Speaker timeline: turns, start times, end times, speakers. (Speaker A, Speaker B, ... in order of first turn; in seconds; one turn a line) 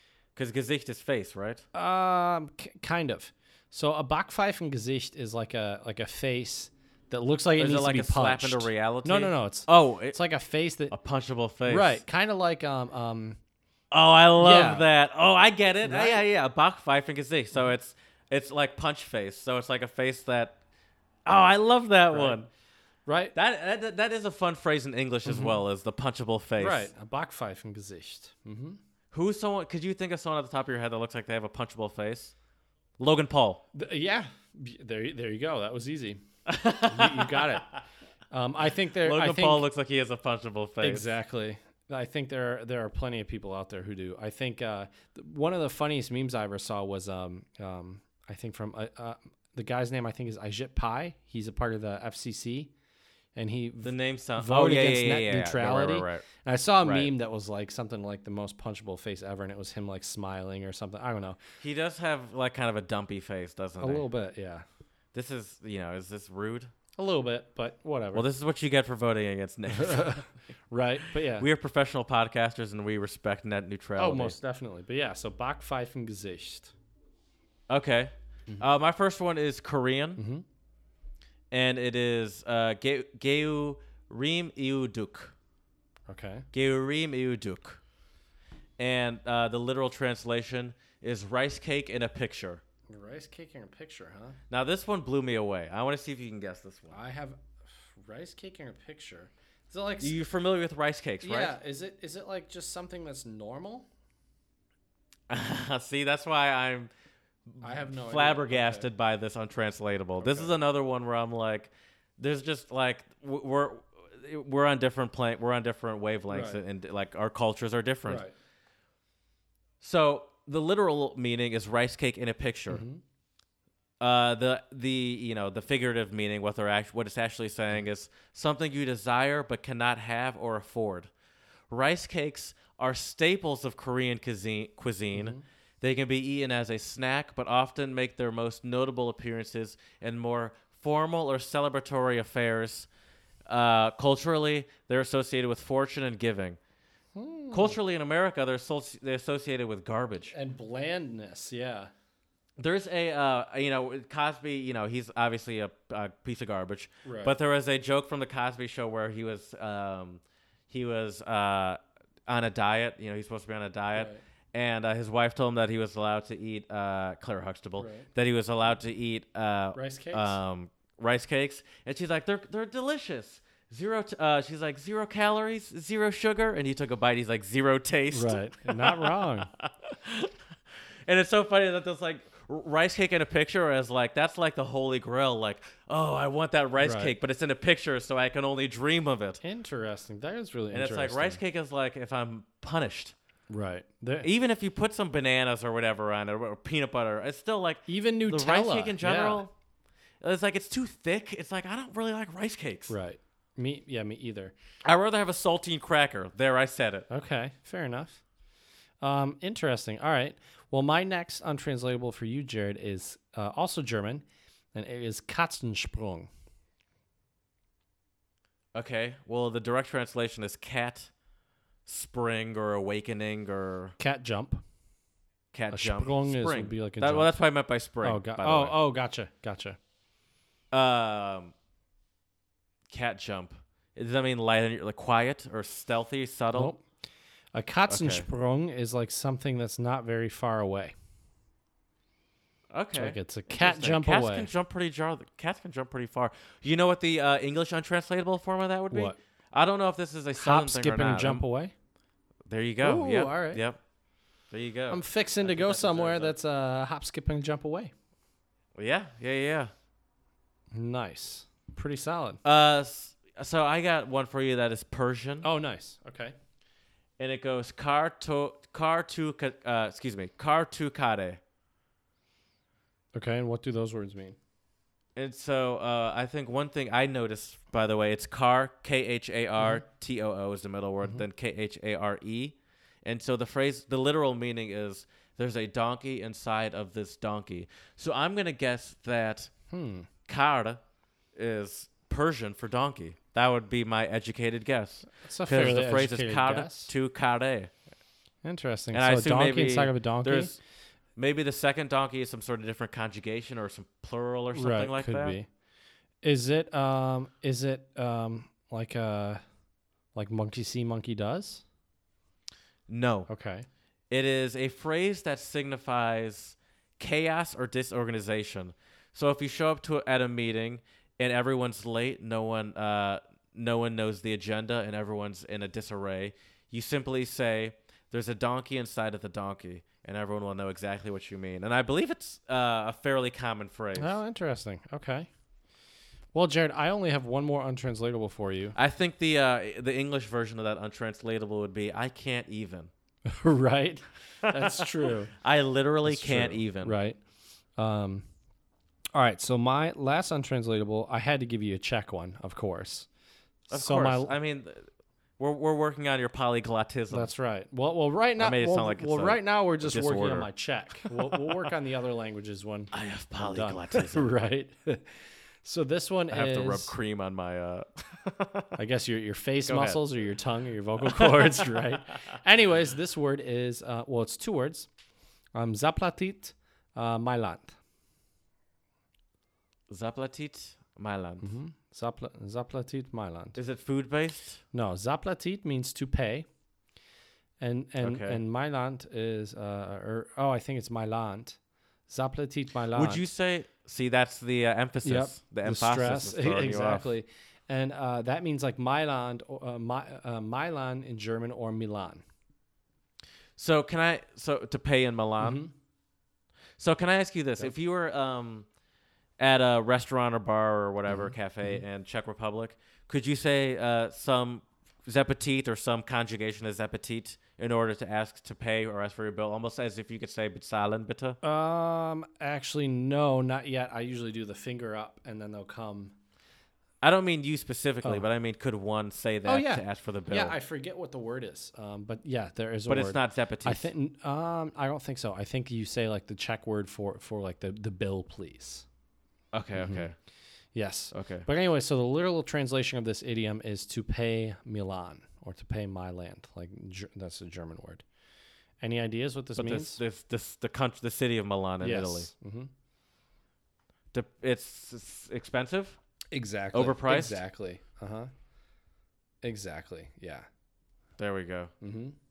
Speaker A: 0.4-1.6
Speaker B: 1.7-10.9
Speaker A: 7.6-10.2
Speaker A: 10.9-12.0
Speaker B: 11.7-13.4
Speaker A: 13.9-20.6
Speaker B: 14.4-14.9
Speaker B: 15.8-16.2
Speaker A: 21.3-22.5
Speaker B: 22.1-22.4
Speaker B: 23.1-23.4
Speaker A: 23.4-26.9
Speaker B: 25.3-25.6
Speaker B: 26.6-28.8
Speaker A: 29.1-32.3
Speaker A: 33.0-33.6
Speaker B: 33.7-36.2
Speaker A: 36.5-37.8
Speaker B: 36.8-37.7
Speaker B: 38.3-39.6
Speaker A: 39.0-41.1
Speaker B: 40.8-52.7
Speaker B: 53.4-61.4
Speaker A: 53.8-56.2
Speaker A: 56.8-57.1
Speaker A: 61.6-64.1
Speaker B: 63.8-64.7
Speaker A: 65.1-66.7
Speaker B: 67.0-68.3
Speaker A: 68.1-70.3
Speaker B: 69.8-71.5
Speaker A: 71.3-74.4
Speaker B: 74.0-76.7
Speaker A: 77.7-80.2
Speaker B: 80.2-80.4
Speaker A: 81.5-85.3
Speaker B: 86.1-86.5
Speaker A: 86.5-87.8
Speaker A: 88.8-92.6
Speaker B: 92.9-94.4
Speaker A: 94.5-97.0
Speaker B: 96.9-100.2
Speaker A: 100.0-101.6
Speaker B: 101.2-103.9
Speaker A: 105.3-106.9
Speaker A: 107.5-118.2
Speaker B: 107.6-108.9
Speaker B: 110.2-110.5
Speaker B: 116.3-116.6
Speaker B: 118.1-118.3
Speaker A: 119.8-122.8
Speaker B: 122.7-123.0
Speaker A: 124.0-131.1
Speaker A: 131.7-142.9
Speaker B: 135.1-135.4
Speaker A: 143.5-146.6
Speaker B: 147.2-147.8
Speaker A: 147.5-150.3
Speaker B: 150.3-151.9
Speaker A: 152.6-180.3
Speaker B: 157.1-157.3
Speaker B: 167.8-168.1
Speaker B: 169.8-170.4
Speaker B: 178.1-179.5
Speaker A: 181.1-189.4
Speaker B: 186.8-187.1
Speaker B: 189.4-191.4
Speaker A: 190.7-193.1
Speaker B: 193.5-194.3
Speaker A: 194.2-199.5
Speaker B: 197.9-199.4
Speaker A: 200.2-203.0
Speaker B: 202.9-204.5
Speaker A: 204.8-207.1
Speaker B: 207.1-208.2
Speaker B: 209.0-216.3
Speaker A: 218.7-221.1
Speaker A: 221.9-224.0
Speaker B: 224.0-224.6
Speaker A: 225.5-228.8
Speaker B: 225.7-227.3
Speaker B: 228.0-229.8
Speaker A: 230.7-231.5
Speaker A: 232.9-236.7
Speaker B: 236.6-236.8
Speaker B: 237.5-240.9
Speaker A: 237.9-238.2
Speaker A: 242.7-251.4
Speaker B: 242.9-244.5
Speaker B: 248.9-249.2
Speaker B: 250.3-251.7
Speaker A: 252.5-253.8
Speaker B: 252.8-253.6
Speaker A: 254.5-256.4
Speaker B: 254.9-257.9
Speaker A: 258.8-259.7
Speaker B: 260.7-262.4
Speaker A: 262.4-265.5
Speaker B: 265.4-266.4
Speaker A: 267.2-271.4
Speaker B: 273.1-274.4
Speaker A: 275.2-289.5
Speaker B: 289.7-290.1
Speaker A: 290.3-290.8
Speaker A: 291.4-297.7
Speaker B: 295.2-296.9
Speaker B: 298.4-300.6
Speaker A: 298.9-300.6
Speaker A: 301.2-305.4
Speaker B: 304.5-305.5
Speaker B: 306.2-309.4
Speaker B: 310.1-311.6
Speaker A: 312.9-313.3
Speaker B: 313.3-313.7
Speaker A: 314.1-334.2
Speaker B: 334.0-335.3
Speaker B: 336.3-338.8
Speaker A: 338.8-342.9
Speaker B: 343.3-345.3
Speaker A: 344.4-346.9
Speaker B: 346.1-347.2
Speaker B: 347.8-348.3
Speaker B: 349.1-353.1
Speaker B: 353.7-354.4
Speaker A: 353.7-354.9
Speaker A: 355.4-357.3
Speaker B: 357.1-365.1
Speaker A: 358.4-360.5
Speaker A: 361.0-361.5
Speaker A: 362.9-364.3
Speaker B: 365.6-366.9
Speaker A: 366.3-368.8
Speaker B: 368.8-374.9
Speaker A: 369.7-370.0
Speaker A: 371.0-371.8
Speaker B: 375.6-377.8
Speaker A: 379.9-381.5
Speaker B: 381.4-383.6
Speaker A: 383.6-384.6
Speaker B: 384.7-386.5
Speaker B: 387.6-391.6
Speaker A: 388.0-388.4
Speaker B: 392.1-393.2
Speaker A: 392.9-397.1
Speaker B: 395.0-402.2
Speaker A: 403.6-405.6
Speaker B: 405.4-405.7
Speaker A: 406.8-408.7
Speaker A: 409.4-421.4
Speaker B: 411.1-411.8
Speaker B: 421.4-426.1
Speaker A: 427.0-430.6
Speaker B: 429.5-438.9
Speaker A: 432.9-433.9
Speaker A: 439.5-440.2
Speaker B: 439.8-440.1
Speaker B: 440.7-448.0
Speaker A: 441.1-441.5
Speaker B: 448.8-450.0
Speaker A: 449.6-452.3
Speaker B: 451.8-452.7
Speaker A: 454.1-456.0
Speaker B: 456.3-458.3
Speaker A: 456.7-457.4
Speaker B: 459.4-460.5
Speaker A: 461.2-461.7
Speaker B: 461.8-462.2